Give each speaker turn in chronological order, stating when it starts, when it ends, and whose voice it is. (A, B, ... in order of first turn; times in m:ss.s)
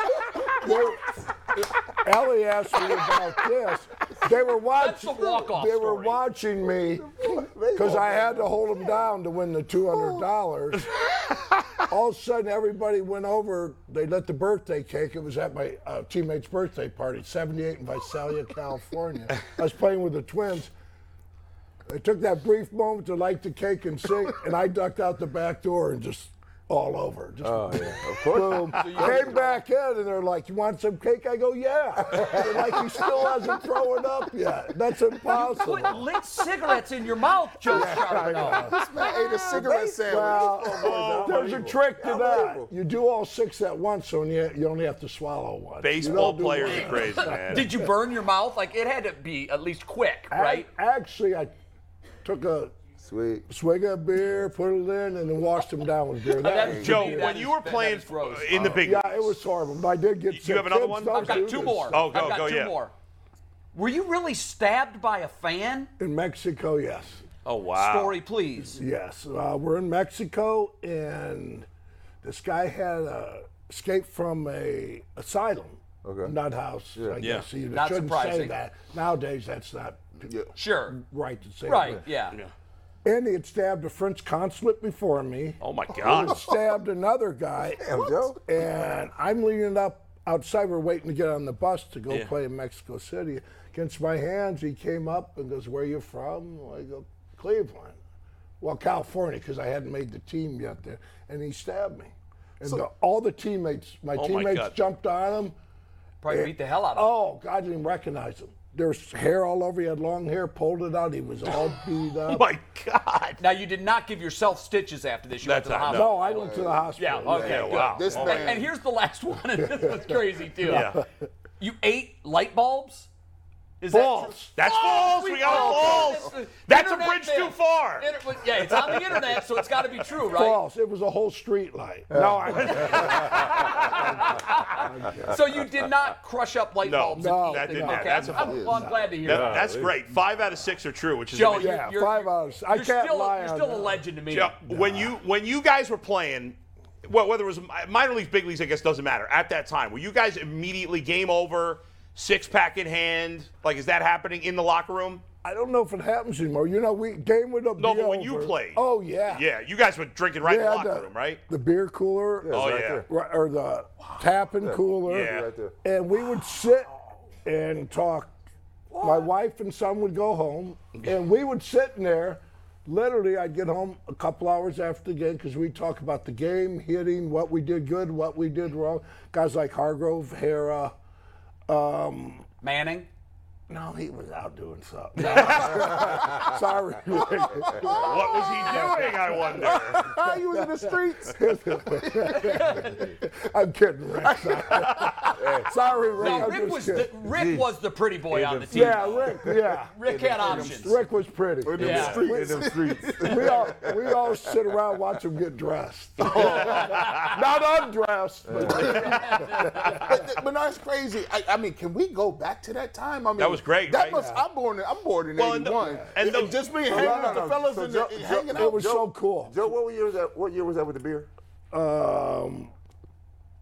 0:00.4-0:10.9 A
0:04.7-0:06.2 B
0:07.0-0:09.0 C
0:11.9-0:20.7 A
0:21.9-0:36.0 A
0:27.4-0:29.4 C
0:28.7-0:29.6 B
0:32.0-0:33.4 C
0:35.3-0:38.7 B
0:37.6-0:47.9 A
0:37.7-0:42.7 C
0:38.5-0:40.8 D
0:40.8-0:41.3 E
0:45.8-0:47.7 E
0:46.7-0:50.7 B
0:50.3-0:51.5 A
0:52.2-0:52.7 A
0:53.0-0:53.5 C
0:53.5-0:57.4 A
0:56.3-0:58.8 B
0:56.5-0:56.9 C
0:56.8-0:59.3 E
0:58.8-1:02.0 A
1:00.3-1:02.7 E
1:01.1-1:02.9 B
1:03.7-1:05.9 B
1:06.0-1:07.2 A
1:07.4-1:08.2 E
1:07.7-1:08.8 B
1:08.6-1:11.7 A
1:12.2-1:20.3 A
1:16.0-1:16.3 C
1:17.2-1:17.5 E
1:17.7-1:18.5 B
1:20.2-1:20.5 D
1:20.5-1:21.0 B
1:20.9-1:22.0 A
1:21.6-1:22.4 B
1:23.0-1:38.0 A
1:25.6-1:26.4 E
1:27.8-1:28.4 C
1:38.6-1:45.5 A
1:44.2-1:44.7 E
1:46.2-1:47.1 B
1:46.3-1:52.5 A
1:52.2-1:53.4 E
1:53.4-2:01.0 B
1:55.4-1:56.1 E
1:55.9-1:58.2 A
1:56.3-1:58.7 D
1:57.3-1:58.5 E
1:59.6-2:01.1 A
2:00.6-2:01.0 E
2:01.6-2:03.1 B
2:03.8-2:10.6 B
2:03.9-2:04.5 A
2:04.6-2:09.5 E
2:05.7-2:06.1 D
2:10.3-2:15.6 A
2:12.1-2:13.5 C
2:12.8-2:19.6 B
2:12.9-2:14.0 E
2:16.8-2:21.8 E
2:17.2-2:19.2 A
2:19.2-2:19.9 C
2:21.3-2:24.5 B
2:21.5-2:24.0 A
2:24.3-2:35.2 E
2:24.6-2:25.1 A
2:35.4-2:39.4 A
2:37.8-2:41.4 E
2:40.4-2:46.9 A
2:42.4-2:43.0 C
2:42.5-2:43.0 E
2:44.6-2:45.7 C
2:45.1-2:45.5 E
2:47.4-2:48.3 A
2:49.0-3:00.9 A
3:01.7-3:02.4 A
3:02.6-3:03.1 B
3:03.7-3:17.1 A
3:05.2-3:06.0 E
3:05.2-3:05.6 B
3:05.8-3:06.4 C
3:07.6-3:08.0 C
3:07.9-3:10.1 E
3:09.7-3:11.4 D
3:10.5-3:11.2 C
3:12.4-3:13.0 B
3:15.0-3:15.3 E
3:15.3-3:16.5 C
3:16.2-3:21.0 B
3:17.2-3:17.7 C
3:18.3-3:20.9 C
3:18.7-3:30.2 A
3:21.6-3:24.5 C
3:21.7-3:23.6 D
3:21.8-3:22.2 B
3:26.3-3:27.4 E
3:26.3-3:26.8 C
3:26.4-3:27.3 B
3:28.5-3:29.1 C
3:28.6-3:30.0 B
3:29.9-3:38.8 D
3:33.4-3:34.2 E
3:34.1-3:34.4 A
3:35.4-3:36.7 E
3:35.8-3:36.1 A
3:36.3-3:41.3 C
3:36.8-3:37.5 A
3:38.5-3:39.5 A
3:41.7-3:42.7 A